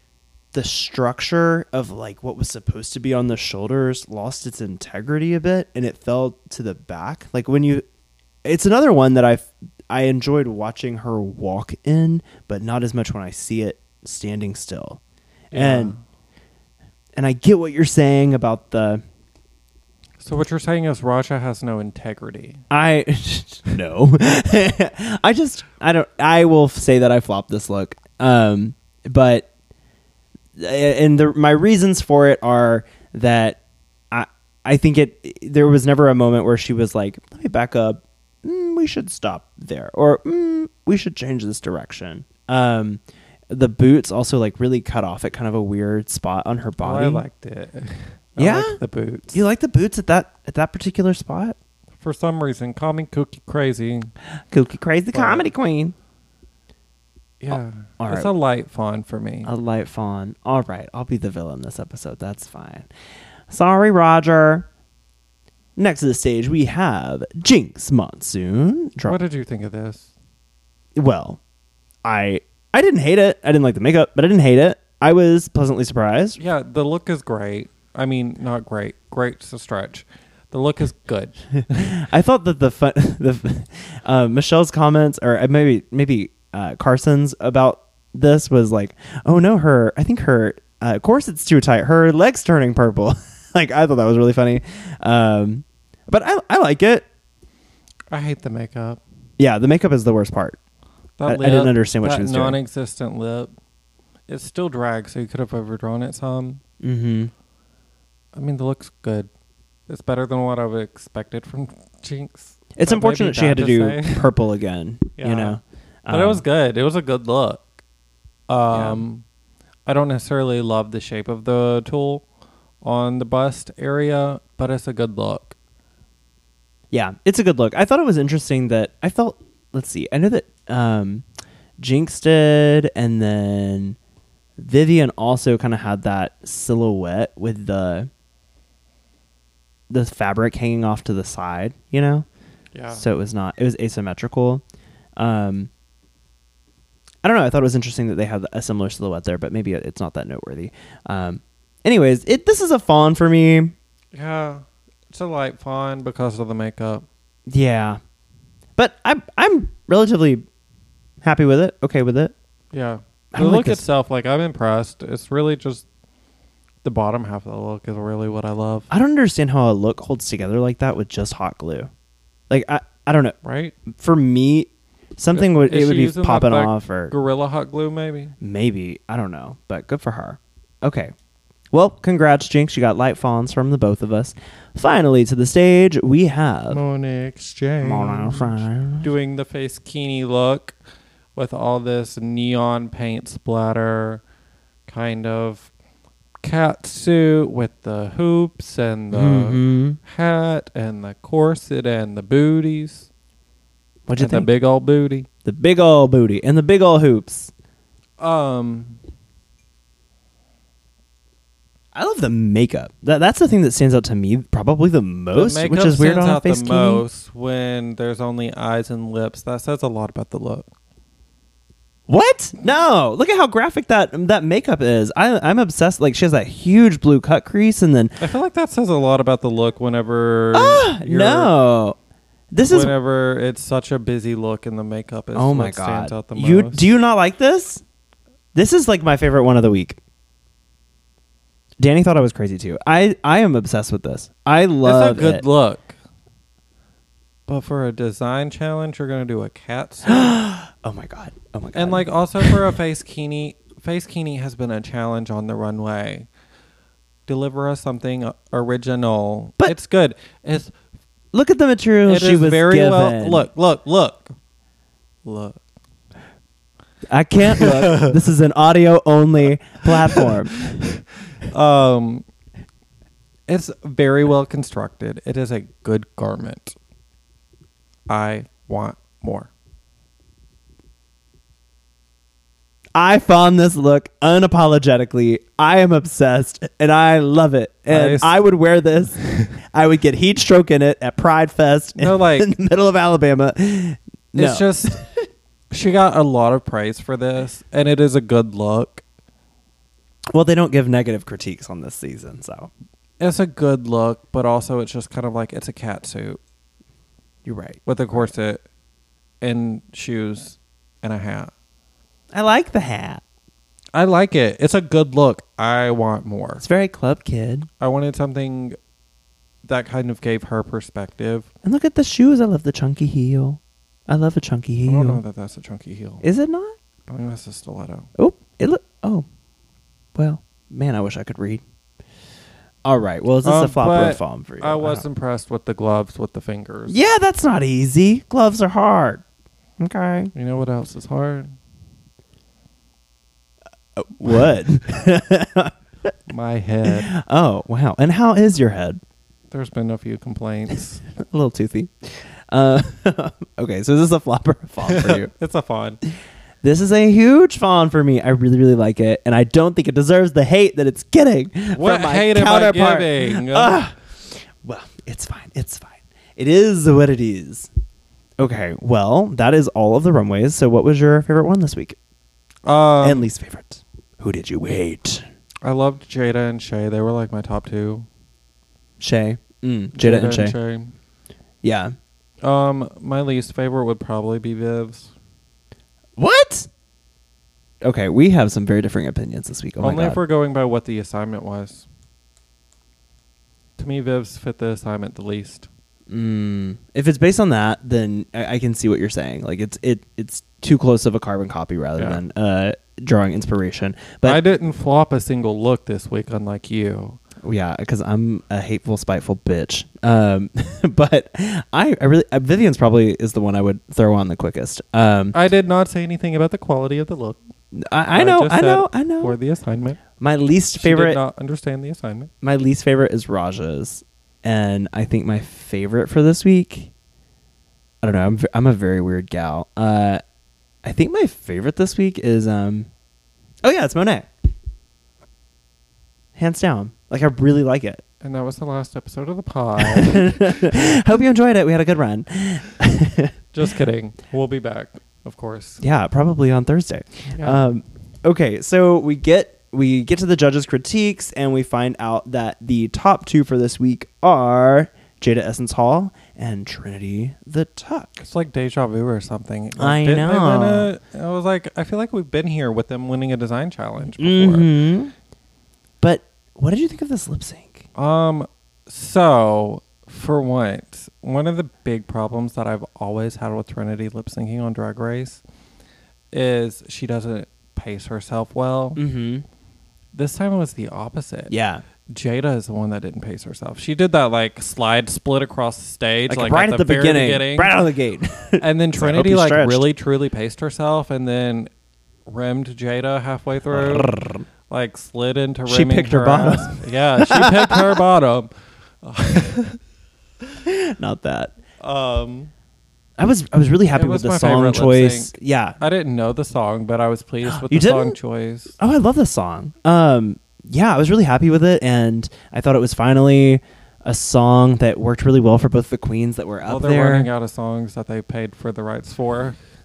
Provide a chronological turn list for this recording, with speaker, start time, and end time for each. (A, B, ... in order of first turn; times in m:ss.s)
0:00.5-0:07.8 A
0:08.4-0:15.0 A
0:15.5-0:16.0 B
0:15.5-0:16.0 A
0:17.2-0:19.0 A
0:20.2-0:22.6 B
0:22.7-0:29.5 A
0:30.6-0:33.6 A
0:34.1-0:47.2 A
0:46.8-0:49.4 B
0:48.4-0:48.8 A
0:49.3-0:51.6 A
0:52.0-0:54.1 B
0:54.5-0:55.9 A
0:55.1-0:55.5 B
0:57.4-0:59.5 B
0:57.5-0:58.3 A
0:59.4-1:02.9 A
1:03.5-1:04.7 A
1:05.8-1:09.2 A
1:09.0-1:10.1 B
1:10.9-1:11.4 A
1:12.0-1:16.4 A
1:16.4-1:21.9 B
1:21.7-1:37.0 A
1:38.1-1:39.0 B
1:39.4-1:40.6 A
1:41.2-1:43.5 B
1:41.2-1:42.6 A
1:44.3-1:46.6 B
1:46.8-1:47.3 A
1:48.3-1:49.3 B
1:49.9-1:54.3 B
1:52.8-1:56.4 A
1:55.2-1:55.6 B
1:56.1-1:57.6 B
1:58.5-1:59.2 B
1:58.7-1:59.0 A
1:59.8-2:02.2 B
2:02.8-2:05.6 B
2:06.9-2:11.2 A
2:11.8-2:14.0 A
2:14.6-2:18.1 A
2:19.9-2:22.2 A
2:22.7-2:23.0 B
2:22.9-2:24.6 A
2:25.2-2:25.7 A
2:27.2-2:33.7 A
2:34.1-2:37.0 B
2:37.5-2:38.0 A
2:38.8-2:40.4 A
2:41.2-2:42.3 A
2:42.7-2:45.8 B
2:43.3-2:43.8 A
2:46.8-2:48.9 B
2:48.9-2:51.9 A
2:52.5-2:53.4 A
2:53.4-2:53.8 B
2:53.9-2:57.1 A
2:55.3-2:58.3 B
2:58.4-3:01.1 A
3:01.7-3:06.8 A
3:06.7-3:10.7 B
3:07.8-3:09.1 A
3:11.4-3:14.2 B
3:14.9-3:15.7 B
3:16.4-3:23.1 B
3:19.1-3:20.0 A
3:24.1-3:24.5 A
3:24.2-3:25.3 B
3:25.4-3:27.5 A
3:28.2-3:29.0 B
3:31.9-3:37.0 A
3:35.3-3:40.7 B
3:42.1-3:48.2 A
3:48.2-3:51.5 B
3:50.5-3:52.0 A
3:52.5-3:52.9 A
3:52.7-3:56.9 B
3:55.3-3:57.8 A
3:58.5-4:00.0 A
4:01.8-4:05.4 A
4:04.8-4:05.9 B
4:07.5-4:10.4 B
4:10.1-4:12.6 A
4:11.7-4:16.3 B
4:17.3-4:20.7 B
4:21.3-4:23.5 A
4:22.0-4:24.3 B
4:25.2-4:25.6 B
4:27.1-4:30.8 A
4:27.5-4:28.2 B
4:30.1-4:30.9 B
4:31.4-4:32.2 B
4:33.5-4:36.8 B
4:38.1-4:39.5 B
4:42.9-4:49.2 A
4:47.9-4:48.4 B
4:49.2-4:49.5 B
4:49.7-4:55.2 A
4:52.0-4:52.5 B
4:54.4-4:55.0 B
4:55.7-4:59.0 B
5:00.3-5:02.7 A
5:03.2-5:06.4 B
5:07.4-5:08.3 A
5:07.8-5:08.6 B
5:09.4-5:11.5 B
5:12.3-5:13.2 A
5:13.9-5:16.6 B
5:16.6-5:17.7 A
5:17.8-5:18.8 B
5:19.6-5:21.5 B
5:21.6-5:25.2 A
5:24.8-5:26.2 B
5:26.2-5:26.8 A
5:27.1-5:28.1 B
5:28.2-5:29.2 A
5:30.1-5:31.6 A
5:32.8-5:35.0 A
5:33.4-5:37.0 B
5:36.9-5:39.2 A
5:39.8-5:40.3 A
5:40.3-5:41.5 B
5:44.0-5:46.1 A
5:46.3-5:47.1 B
5:46.9-5:49.0 A
5:49.5-5:51.0 B
5:51.2-5:55.3 A
5:54.8-5:56.0 B
5:56.6-6:07.7 A
6:01.7-6:03.8 B
6:08.4-6:12.0 A
6:12.6-6:13.2 B
6:13.0-6:15.2 A
6:15.6-6:18.0 B
6:19.0-6:20.6 A
6:19.9-6:20.9 B
6:21.6-6:21.9 A
6:22.4-6:25.1 B
6:26.2-6:26.7 A
6:27.8-6:30.2 A
6:29.8-6:31.8 B
6:33.8-6:35.7 B
6:36.1-6:44.4 A
6:42.0-6:42.2 B
6:44.2-6:47.2 B
6:47.4-6:55.4 A
6:55.3-6:57.4 B
6:57.7-6:59.3 A
6:58.1-7:00.0 B
7:00.2-7:01.2 A
7:00.8-7:02.3 B
7:02.4-7:06.9 A
7:08.0-7:10.2 A
7:10.8-7:12.9 A
7:13.6-7:14.3 A
7:16.4-7:18.0 A
7:18.2-7:20.9 B
7:19.8-7:23.3 A
7:23.5-7:25.8 B
7:25.8-7:38.2 A
7:27.3-7:27.6 B
7:38.2-7:44.7 B
7:39.8-7:40.9 A
7:44.2-7:45.1 A
7:46.0-7:47.8 A
7:47.9-7:55.4 B
7:56.3-7:59.0 B
7:59.0-7:59.4 A
8:00.1-8:01.5 B
8:01.5-8:01.8 A
8:02.1-8:07.7 B
8:06.3-8:09.8 A
8:08.6-8:11.7 B
8:12.3-8:14.2 B
8:13.7-8:14.4 A
8:14.7-8:18.5 B
8:15.6-8:18.0 A
8:19.0-8:19.8 B
8:20.6-8:21.5 A
8:21.8-8:22.5 B
8:23.2-8:25.8 A
8:23.9-8:28.8 B
8:27.4-8:28.1 A
8:28.8-8:37.3 A
8:36.6-8:39.6 B